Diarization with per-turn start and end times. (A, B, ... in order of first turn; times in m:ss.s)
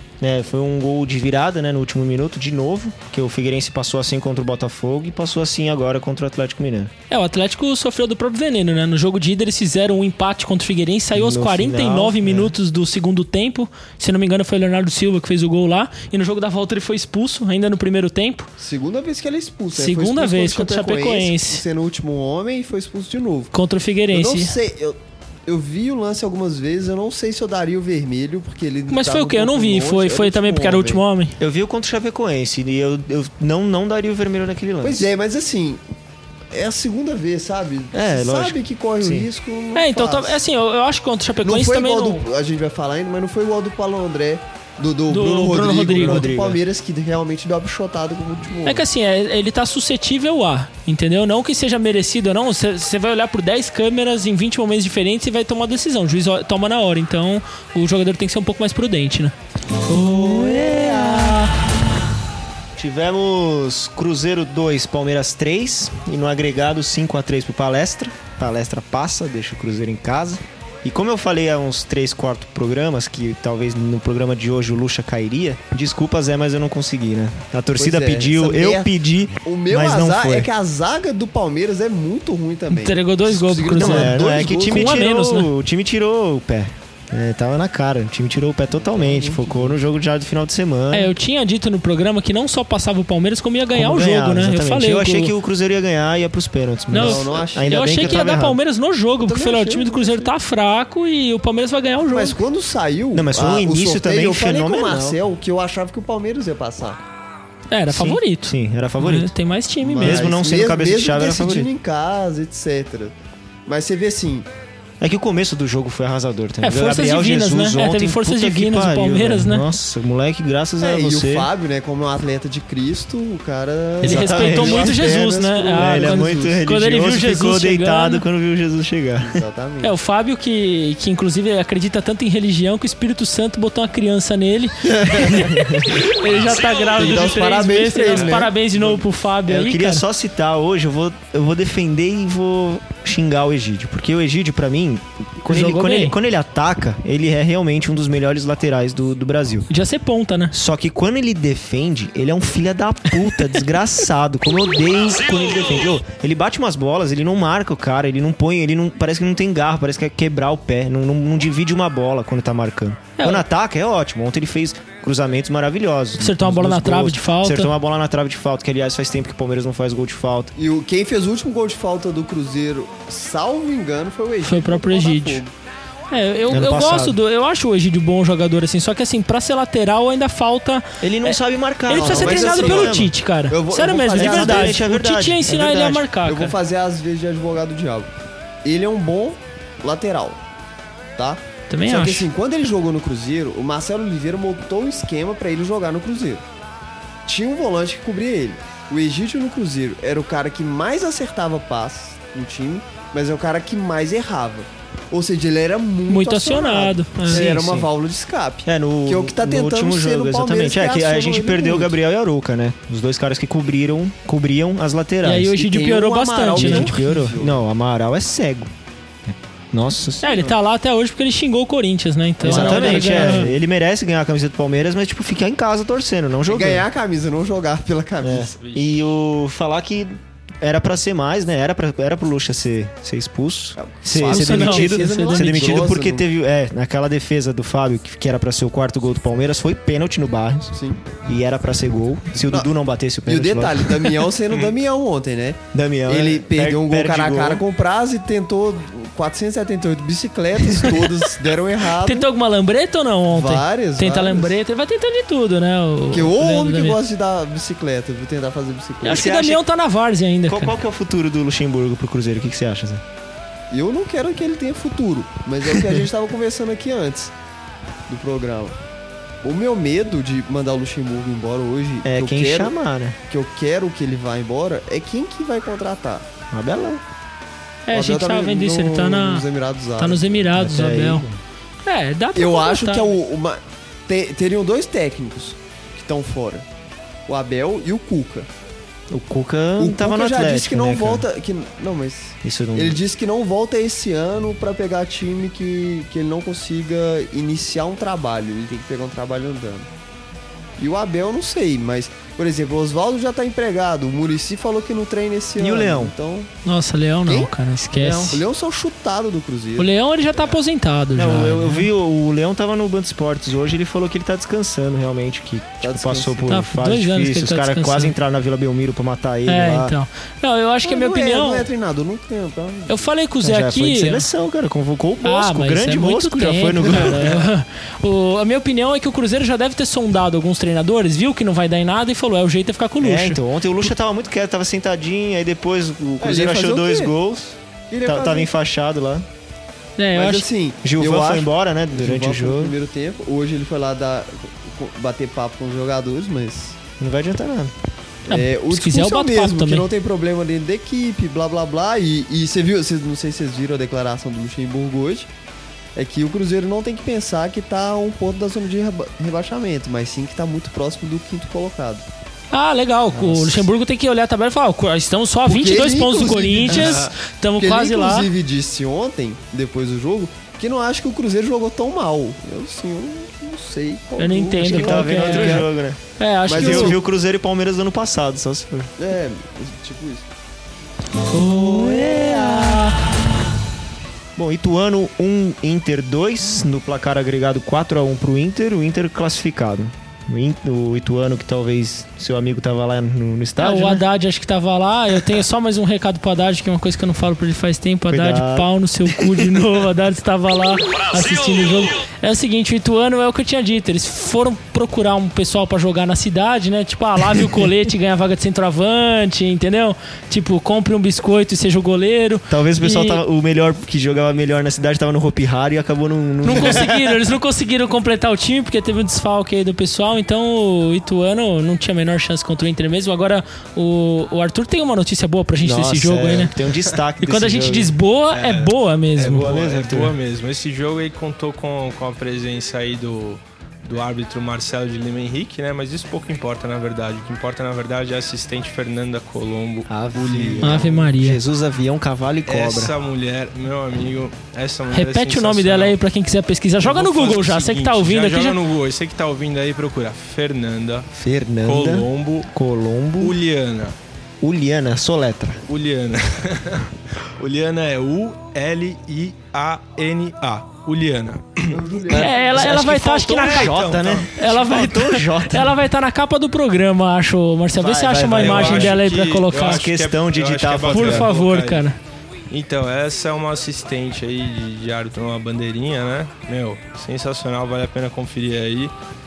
0:00.2-0:06.9 A
0:07.1-0:18.5 B
0:11.1-0:12.5 A
0:18.6-0:23.5 C
0:19.7-0:21.6 B
0:23.5-0:24.5 B
0:24.1-0:31.0 C
0:28.9-0:31.4 B
0:31.4-0:35.0 A
0:34.8-0:35.8 C
0:36.5-0:40.4 C
0:37.9-0:39.3 A
0:39.7-0:42.2 B
0:41.4-0:48.8 C
0:45.1-0:46.3 B
0:45.9-0:46.6 A
0:48.6-0:59.3 B
0:59.9-1:01.5 A
1:02.8-1:20.5 A
1:17.8-1:18.9 C
1:19.4-1:25.0 C
1:22.7-1:25.5 B
1:23.7-1:31.1 A
1:28.8-1:29.8 C
1:30.9-1:35.3 B
1:33.7-1:38.6 A
1:36.9-1:42.4 B
1:36.9-1:38.3 C
1:39.2-1:40.3 C
1:42.1-1:47.0 C
1:43.1-1:45.2 A
1:47.7-1:50.3 B
1:47.9-1:49.3 A
1:49.8-1:53.1 C
1:50.0-1:51.7 A
1:53.6-1:54.5 C
1:55.0-2:01.5 A
1:56.6-1:59.6 B
2:00.8-2:06.6 C
2:04.0-2:05.1 A
2:04.0-2:08.2 B
2:05.7-2:09.4 A
2:09.2-2:09.9 C
2:09.8-2:20.0 B
2:14.9-2:15.5 C
2:15.3-2:15.9 A
2:16.9-2:19.0 C
2:19.5-2:29.7 A
2:25.4-2:26.1 B
2:29.7-2:30.5 B
2:30.5-2:50.5 A
2:43.2-2:43.4 B
2:46.2-2:47.7 B
2:50.5-2:55.5 C
2:54.4-2:55.4 B
2:56.1-3:06.5 B
2:56.5-2:57.2 A
3:01.0-3:03.1 A
3:01.9-3:04.8 C
3:04.1-3:06.1 A
3:06.2-3:08.1 C
3:08.6-3:10.4 C
3:11.2-3:16.4 C
3:11.7-3:12.3 B
3:17.2-3:31.9 C
3:26.1-3:27.5 B
3:27.3-3:27.9 A
3:28.6-3:35.7 A
3:35.2-3:37.1 B
3:35.5-3:37.6 C
3:36.5-3:38.7 A
3:39.2-3:40.5 A
3:40.2-3:43.5 B
3:42.4-3:43.6 C
3:42.4-3:46.8 A
3:46.5-3:48.6 C
3:48.2-4:04.1 A
3:48.6-3:49.0 D
3:53.8-3:56.2 C
3:54.2-3:55.9 B
4:00.7-4:01.0 C
4:03.3-4:12.3 C
4:05.7-4:07.6 A
4:10.8-4:11.1 B
4:11.9-4:17.0 B
4:13.3-4:14.6 C
4:16.1-4:19.3 C
4:19.0-4:19.6 A
4:19.0-4:20.7 B
4:20.5-4:23.0 A
4:23.7-4:27.3 C
4:28.1-4:28.8 C
4:29.4-4:32.7 C
4:32.0-4:33.2 A
4:33.3-4:36.3 C
4:36.5-4:37.0 A
4:37.9-4:39.4 B
4:37.9-4:40.5 C
4:40.0-4:41.2 B
4:40.5-4:41.4 A
4:41.8-4:43.1 B
4:42.3-4:46.6 C
4:47.3-4:48.5 C
4:49.1-4:51.2 A
4:49.8-4:59.9 C
4:52.4-4:53.0 A
5:00.8-5:06.5 C
5:05.6-5:06.1 A
5:06.6-5:08.4 B
5:07.3-5:07.5 C
5:07.9-5:08.4 A
5:08.3-5:10.5 C
5:09.8-5:11.9 B
5:11.1-5:19.9 A
5:15.8-5:16.5 C
5:16.5-5:18.1 B
5:19.5-5:21.7 B
5:20.8-5:23.1 C
5:22.9-5:24.2 B
5:23.4-5:27.4 A
5:25.2-5:33.4 B
5:33.0-5:39.2 A
5:36.2-5:37.1 C
5:37.9-5:38.5 C
5:40.0-5:40.5 B
5:40.1-5:46.8 C
5:40.8-5:42.7 A
5:47.0-5:47.7 A
5:48.3-5:55.3 C
5:48.3-5:49.9 B
5:55.9-6:02.0 C
6:02.5-6:08.3 B
6:03.1-6:03.7 A
6:05.4-6:15.7 C
6:14.2-6:17.0 B
6:14.6-6:18.9 A
6:16.5-6:17.0 C
6:19.0-6:20.3 C
6:21.3-6:22.9 B
6:24.4-6:34.0 A
6:33.6-6:53.2 B
6:38.1-6:39.5 A
6:52.5-6:57.1 A
6:56.4-7:06.5 B
7:05.6-7:07.9 A
7:07.2-7:09.5 B
7:08.3-7:20.9 D
7:09.2-7:10.2 A
7:19.9-7:22.9 A
7:20.6-7:21.4 B
7:22.5-7:26.0 D
7:24.9-7:28.6 B
7:26.8-7:31.1 D
7:31.1-7:33.4 A
7:31.6-7:32.5 D
7:33.2-7:34.0 D
7:34.4-7:35.6 A
7:35.7-7:41.8 D
7:41.7-7:42.6 C
7:42.1-7:43.7 B
7:42.1-7:45.8 A
7:43.3-7:44.3 D
7:44.3-7:49.8 B
7:47.7-7:51.3 A
7:48.3-7:51.8 D
7:50.9-7:52.0 B
7:52.5-7:58.9 D